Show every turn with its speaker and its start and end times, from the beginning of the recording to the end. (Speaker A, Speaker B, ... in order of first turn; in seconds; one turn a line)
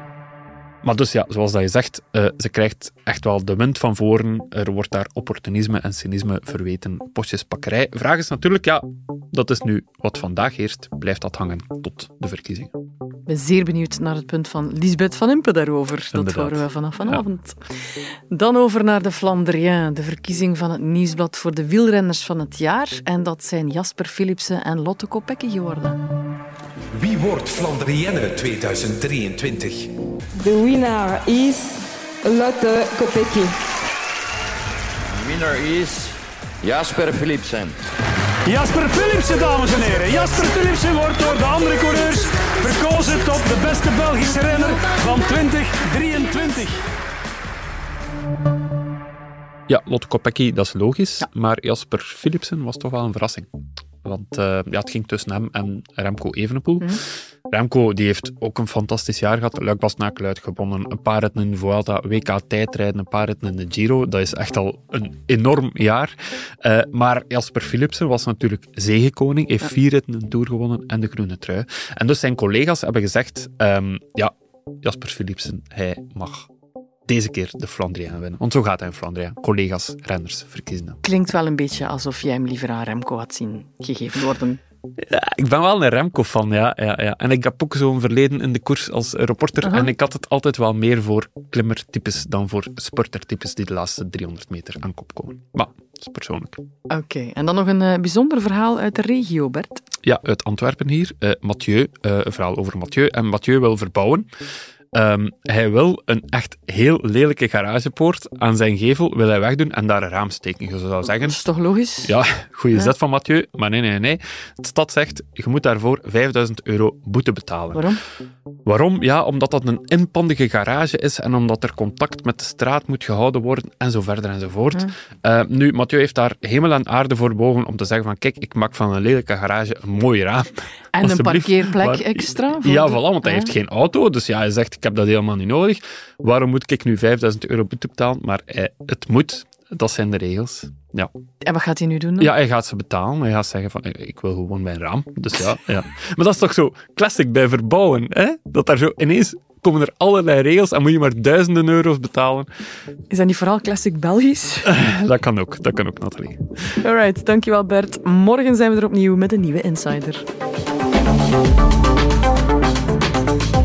Speaker A: 0.8-12.7
Speaker B: 13.2-17.6
Speaker A: 16.1-17.2
Speaker B: 18.3-26.0
Speaker C: 26.9-29.9
Speaker D: 30.4-31.7
Speaker D: 32.3-33.5
Speaker E: 35.1-37.8
Speaker F: 38.4-46.8
Speaker A: 49.7-53.5
Speaker A: 54.0-76.5
Speaker A: 77.1-81.0
Speaker B: 81.0-84.6
Speaker A: 85.0-96.6
Speaker B: 89.6-89.9
Speaker B: 96.9-99.8
Speaker A: 100.0-104.2
Speaker A: 104.9-111.4
Speaker B: 111.1-112.1
Speaker A: 112.0-117.8
Speaker B: 117.7-118.0
Speaker A: 118.7-130.4
Speaker B: 130.9-133.5
Speaker A: 131.0-141.1
Speaker B: 141.4-142.3
Speaker A: 142.2-152.5
Speaker B: 153.1-154.7
Speaker A: 154.6-156.4
Speaker B: 156.8-160.2